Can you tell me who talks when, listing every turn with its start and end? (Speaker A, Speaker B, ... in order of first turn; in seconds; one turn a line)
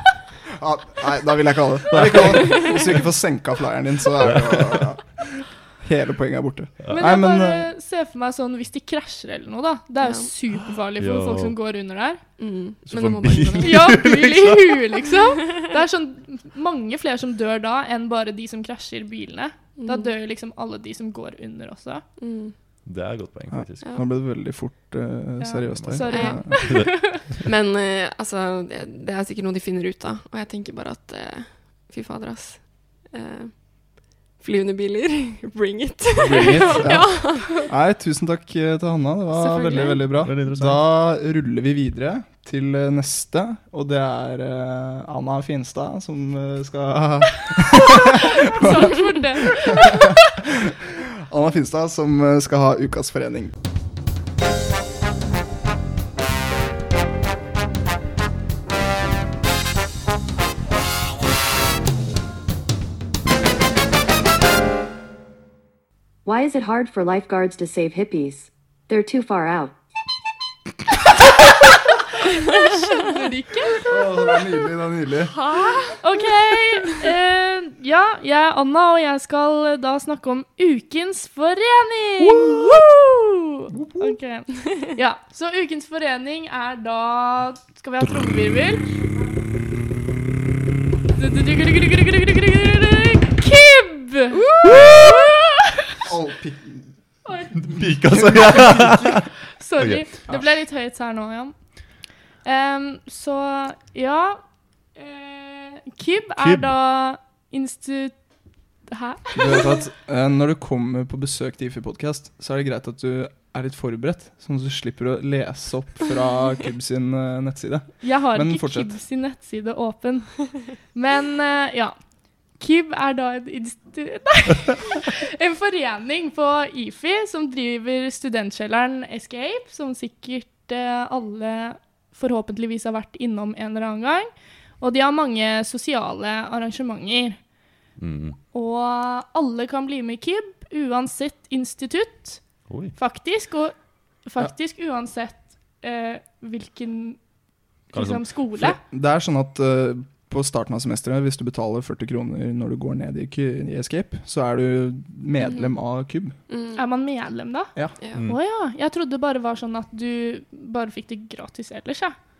Speaker A: 0.6-7.7
Speaker B: 1.9-3.0
Speaker C: 2.4-2.7
Speaker B: 4.2-4.9
Speaker B: 6.8-7.1
Speaker D: 6.9-12.2
Speaker C: 10.0-10.3
Speaker B: 11.0-11.6
Speaker C: 12.4-14.1
Speaker B: 12.9-14.7
Speaker D: 13.6-22.0
Speaker C: 19.8-20.1
Speaker C: 22.2-22.5
Speaker B: 22.9-23.9
Speaker A: 23.5-26.7
Speaker D: 25.4-27.2
Speaker B: 25.8-27.1
Speaker C: 26.1-26.6
Speaker C: 27.4-37.7
Speaker A: 36.1-50.1
Speaker C: 39.4-40.1
Speaker B: 40.2-40.9
Speaker D: 48.4-50.1
Speaker A: 51.0-53.5
Speaker E: 66.2-69.7
Speaker D: 73.0-74.3
Speaker A: 73.9-75.3
Speaker C: 75.3-76.0
Speaker D: 76.0-83.3
Speaker D: 84.0-89.0
Speaker D: 91.2-95.5
Speaker C: 94.3-95.2
Speaker A: 96.0-97.0
Speaker D: 97.2-97.7
Speaker B: 97.6-100.1
Speaker A: 98.2-99.0
Speaker D: 99.6-109.8
Speaker B: 106.4-106.7
Speaker A: 109.3-119.0
Speaker D: 118.0-122.0
Speaker D: 122.5-137.5
Speaker B: 138.0-138.4
Speaker D: 138.5-147.3
Speaker B: 142.7-143.0
Speaker D: 147.8-148.8
Speaker B: 147.9-148.3
Speaker A: 148.6-156.3
Speaker C: 155.4-155.7
Speaker C: 156.5-156.8
Speaker D: 156.8-162.1